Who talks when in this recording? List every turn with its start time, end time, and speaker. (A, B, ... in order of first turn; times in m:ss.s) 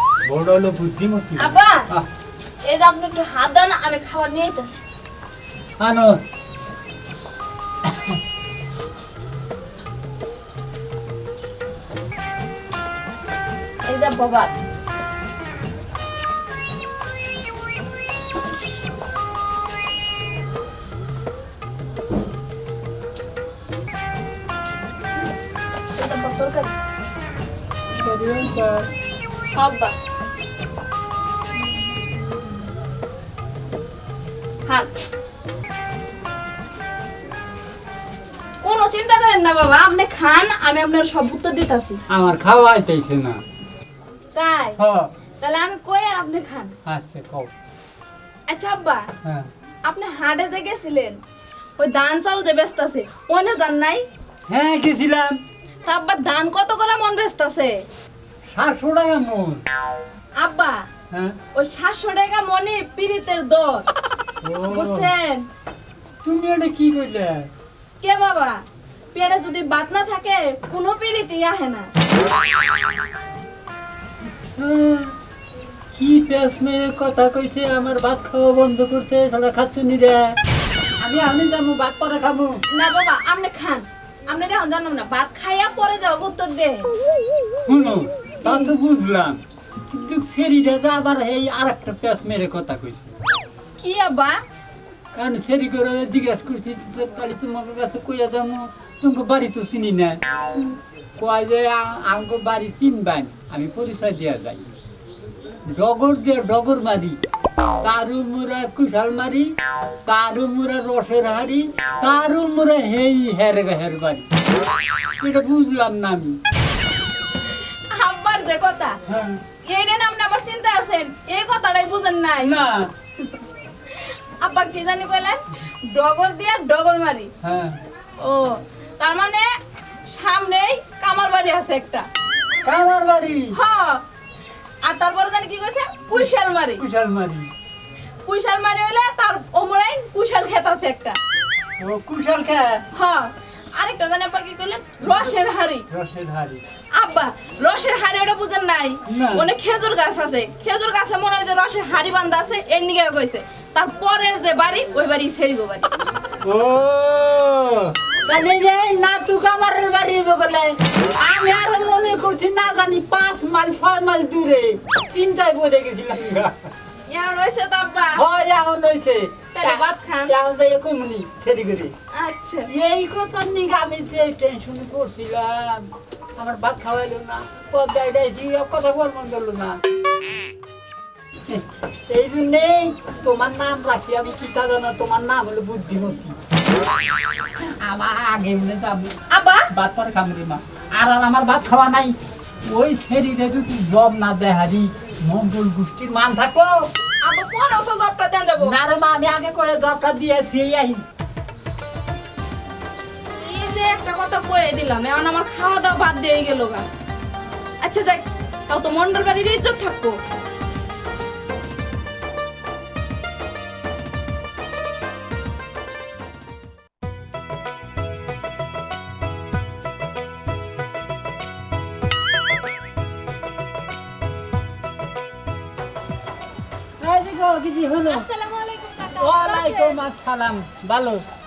0:00.2-0:02.1 A
0:01.4-0:01.8 B
0:02.7-0:04.8 B
0:05.8-0:06.2 A
0:07.8-0:08.2 A
0:13.8-0:14.5 B
0:26.0-0:26.7 B
0:27.9-0:28.9 A
0:29.5-0:29.9 B
0:38.6-0:42.0 B
0:42.1-0:43.4 A
0:44.3-0:44.8 B
0:44.8-0:45.1 A
0:45.4-0:46.7 B
0:46.8-0:47.5 A
0:48.5-0:49.0 B
0:49.2-0:49.5 A
0:49.8-0:51.2 B
0:51.8-0:54.0 B
0:54.5-0:55.4 A
0:55.8-0:57.9 B
0:58.5-0:59.6 A
1:00.4-1:00.8 B
1:01.1-1:01.4 A
1:01.5-1:03.9 B
1:04.4-1:05.1 A
1:04.7-1:05.4 B
1:06.2-1:07.5 A
1:08.0-1:08.6 B
1:09.1-1:11.9 B
1:14.2-1:15.1 A
1:15.9-1:20.4 A
1:21.0-1:22.6 A
1:22.7-1:26.9 B
1:27.7-1:33.1 A
1:28.4-1:28.7 B
1:33.8-1:34.4 B
1:35.2-1:40.2 A
1:41.2-1:44.7 A
1:45.7-1:47.2 A
1:47.8-1:49.5 A
1:50.0-1:54.3 A
1:55.2-1:56.4 A
1:57.4-1:59.0 B
1:59.1-1:59.4 A
1:59.6-2:02.6 B
2:02.4-2:02.9 A
2:03.2-2:07.3 B
2:07.4-2:07.8 A
2:08.2-2:09.5 B
2:10.1-2:12.0 B
2:12.6-2:13.5 A
2:13.5-2:14.0 B
2:14.8-2:16.8 B
2:16.8-2:17.5 A
2:18.2-2:21.2 B
2:21.8-2:22.8 A
2:22.9-2:25.8 B
2:25.9-2:26.6 A
2:26.9-2:35.9 B
2:29.1-2:29.5 A
2:36.4-2:46.5 A
2:47.1-2:48.2 B
2:48.2-2:51.9 A
2:49.5-2:50.3 B
2:52.1-2:52.7 B
2:52.6-2:59.8 A
3:01.5-3:06.4 A
3:07.6-3:09.1 A
3:09.3-3:09.6 B
3:09.7-3:12.1 A
3:12.7-3:16.9 A
3:17.2-3:18.7 B
3:18.6-3:21.0 A
3:23.3-3:26.8 B
3:27.8-3:30.2 B
3:47.0-3:48.3 A
3:48.1-3:50.0 B
3:49.2-3:51.2 A